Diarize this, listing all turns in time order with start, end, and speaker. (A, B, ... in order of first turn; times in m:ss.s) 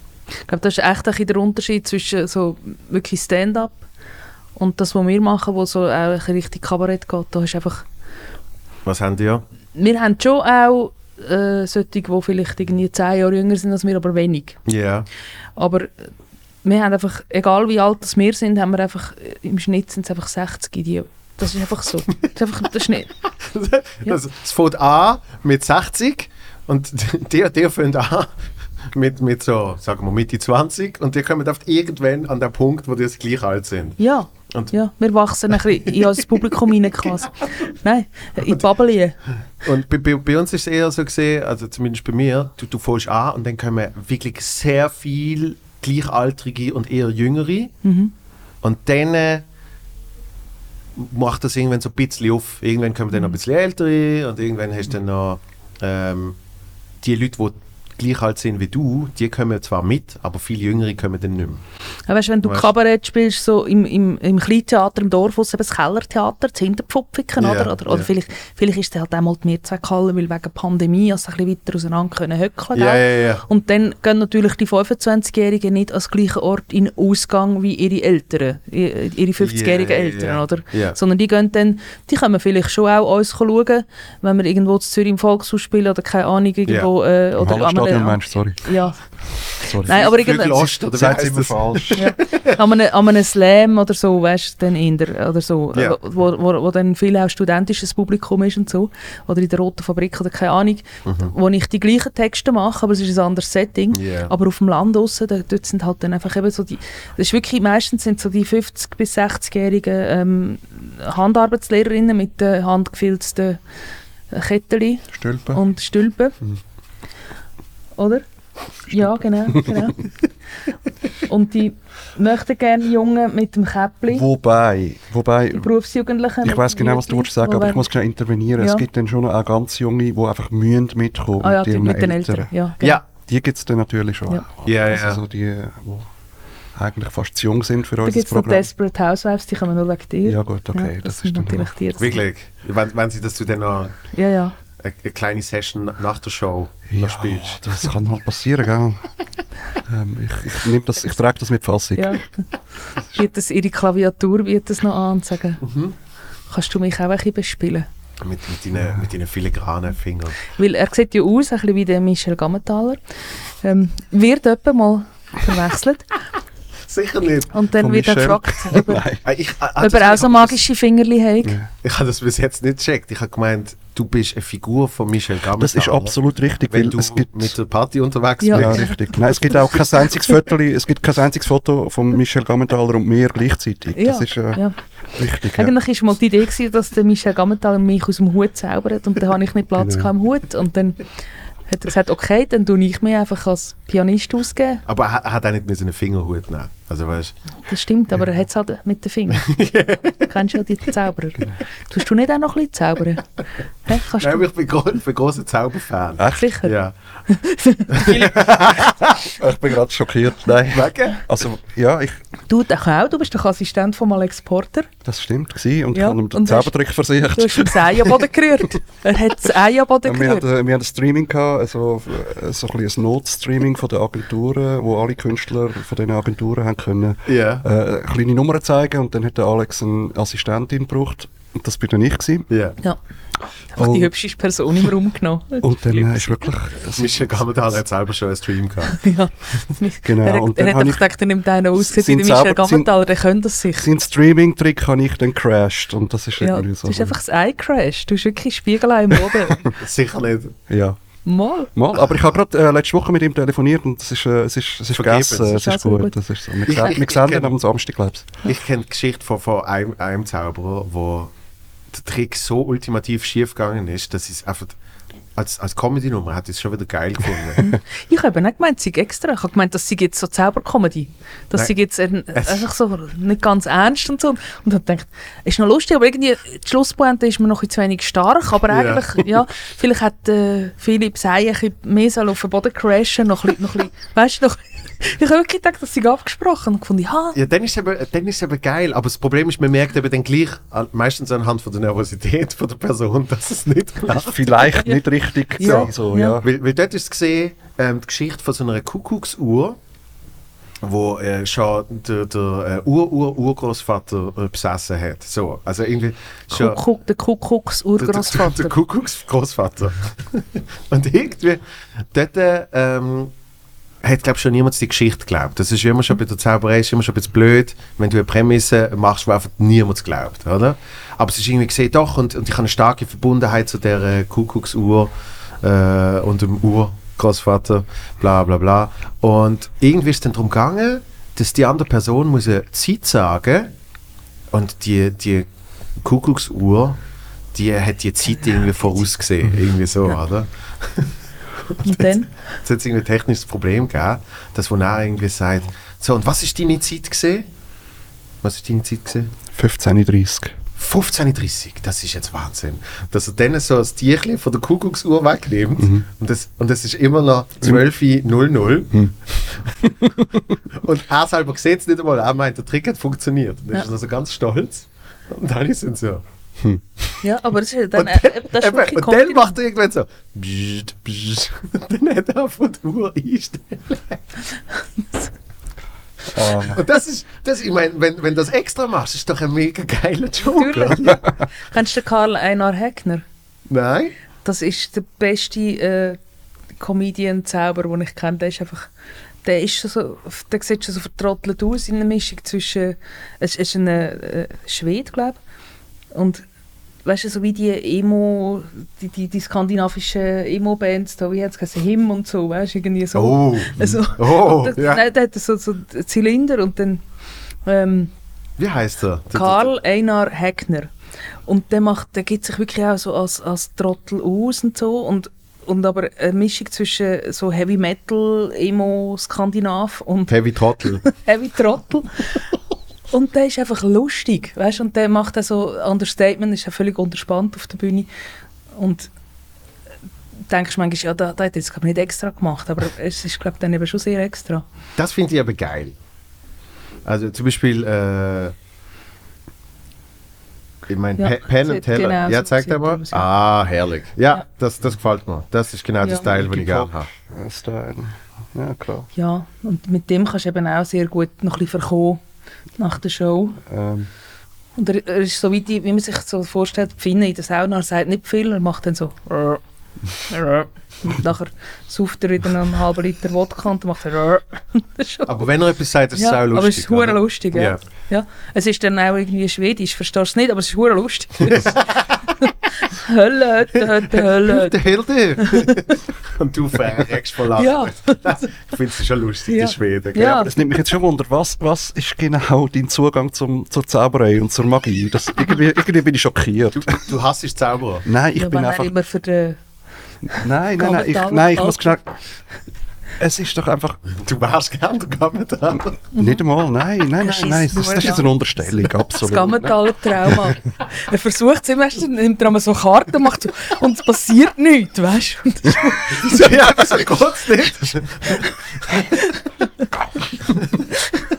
0:00.3-0:03.8 A
0:04.6-0:07.9 A
0:08.9-0:09.4 B
0:09.8-0:14.6 A
0:14.7-0:15.1 B
0:15.6-0:16.1 A
0:16.6-0:23.1 A
0:23.4-0:34.7 B
0:34.0-0:39.2 A
0:36.0-0:37.1 B
0:39.6-0:47.7 B
0:47.8-0:48.1 A
0:48.6-0:49.4 B
0:51.0-0:56.4 B
0:57.0-1:01.6 B
1:02.1-1:30.7 A
1:07.4-1:08.1 B
1:12.8-1:13.4 B
1:19.4-1:21.0 B
1:27.4-1:28.7 C
1:29.6-1:30.1 C
1:29.9-1:32.5 B
1:30.9-1:32.0 C
1:32.0-1:53.6 A
1:41.0-1:41.3 B
1:43.9-1:44.3 B
1:54.3-1:56.4 A
1:55.2-1:55.6 C
1:58.0-1:58.2 A
1:58.8-2:00.2 A
1:59.5-1:59.9 C
2:01.2-2:04.2 A
2:04.1-2:05.7 C
2:05.5-2:07.9 A
2:06.4-2:12.5 C
2:08.6-2:08.8 A
2:11.4-2:13.0 A
2:13.1-2:16.1 C
2:14.6-2:15.2 B
2:16.7-2:18.7 C
2:18.0-2:22.2 A
2:20.2-2:21.7 C
2:22.0-2:24.0 B
2:24.1-2:24.6 A
2:24.8-2:27.9 B
2:26.9-2:29.1 C
2:29.9-2:32.2 C
2:32.0-2:32.3 A
2:33.0-2:35.6 A
2:35.6-2:35.9 B
2:36.5-2:37.9 A
2:38.2-2:40.4 B
2:40.6-2:46.1 A
2:46.9-2:48.2 B
2:47.5-2:49.2 A
2:47.8-2:49.2 C
2:49.2-2:50.6 B
2:49.8-2:51.6 A
2:51.4-2:51.7 C
2:51.8-2:56.2 B
2:55.6-2:57.6 C
2:56.7-2:58.9 B
2:58.4-2:59.0 A
2:58.5-3:05.7 C
3:04.0-3:04.8 A
3:05.5-3:11.1 A
3:09.8-3:10.1 C
3:11.7-3:14.8 A
3:14.9-3:17.4 B
3:17.7-3:19.6 A
3:19.4-3:20.3 B
3:20.2-3:24.4 A
3:24.2-3:26.9 B
3:26.2-3:26.5 C
3:26.4-3:26.8 A
3:27.3-3:28.4 A
3:27.9-3:29.3 B
3:29.4-3:32.2 C
3:30.7-3:31.2 B
3:32.5-3:34.9 A
3:35.0-3:38.2 C
3:35.9-3:40.5 A
3:40.0-3:52.5 C
3:47.2-3:47.6 B
3:52.5-3:52.8 B
3:53.7-3:55.7 A
3:53.8-3:54.1 C
3:55.6-3:57.4 C
3:55.9-3:56.4 B
3:57.0-3:59.0 B
3:58.9-4:03.9 A
4:00.0-4:01.0 C
4:01.8-4:02.9 C
4:03.8-4:07.1 C
4:06.4-4:09.7 A
4:09.8-4:10.6 B
4:10.7-4:11.0 C
4:11.3-4:11.7 A
4:11.7-4:18.3 C
4:14.9-4:15.6 B
4:15.4-4:16.2 A
4:16.7-4:17.5 B
4:18.4-4:21.3 B
4:21.9-4:24.8 B
4:25.4-4:27.7 B
4:27.6-4:47.4 A
4:32.3-4:32.7 B
4:38.7-4:39.2 B
4:47.3-4:54.7 B
4:54.1-4:56.5 C
4:54.7-4:55.0 A
4:55.6-4:56.4 A
4:55.6-4:59.8 B
5:00.8-5:06.8 B
5:06.5-5:08.7 A
5:08.0-5:13.3 B
5:14.0-5:33.7 B
5:34.5-5:35.5 B
5:36.0-5:37.0 B
5:37.5-5:47.5 B
5:41.8-5:42.4 A
5:48.4-5:49.3 B
5:49.5-5:50.5 C
5:50.8-5:59.9 B
5:55.8-5:56.0 C
6:00.7-6:06.2 B
6:07.2-6:09.5 A
6:08.0-6:14.2 B
6:16.3-6:16.8 C
6:16.6-6:21.1 B
6:20.4-6:23.2 A
6:23.7-6:24.1 B
6:24.4-6:26.2 A
6:26.8-6:28.9 A
6:29.4-6:35.4 A
6:36.1-6:36.4 A
6:37.0-6:47.0 A
6:43.1-6:45.0 B
6:47.6-6:48.1 A
6:48.6-6:49.7 B
6:49.3-6:50.9 A
6:51.5-7:00.4 A
7:00.3-7:01.0 B
7:01.0-7:02.5 A
7:03.1-7:08.1 A
7:08.8-7:09.1 A
7:10.5-7:14.6 A
7:15.0-7:16.0 B
7:17.0-7:18.6 B
7:20.9-7:27.1 B
7:21.2-7:23.3 A
7:26.3-7:29.1 C
7:29.2-7:32.2 A
7:32.8-7:33.6 A
7:33.7-7:34.1 C
7:34.8-7:39.6 A
7:40.2-7:45.3 A
7:45.3-7:47.8 B
7:46.2-7:51.9 A
7:51.4-7:52.3 B
7:52.4-7:54.8 A
7:54.2-8:00.5 B
7:55.4-7:55.8 A
7:57.6-7:58.6 A
7:59.5-8:00.5 A
8:00.3-8:07.1 C
8:06.8-8:08.1 B
8:08.0-8:08.9 C
8:08.4-8:09.6 A
8:10.3-8:12.1 A
8:10.3-8:12.0 C
8:13.2-8:14.0 C
8:14.1-8:16.0 B
8:16.1-8:16.4 A
8:16.2-8:20.6 C
8:17.2-8:27.0 A
8:26.1-8:29.1 B
8:30.5-8:30.9 B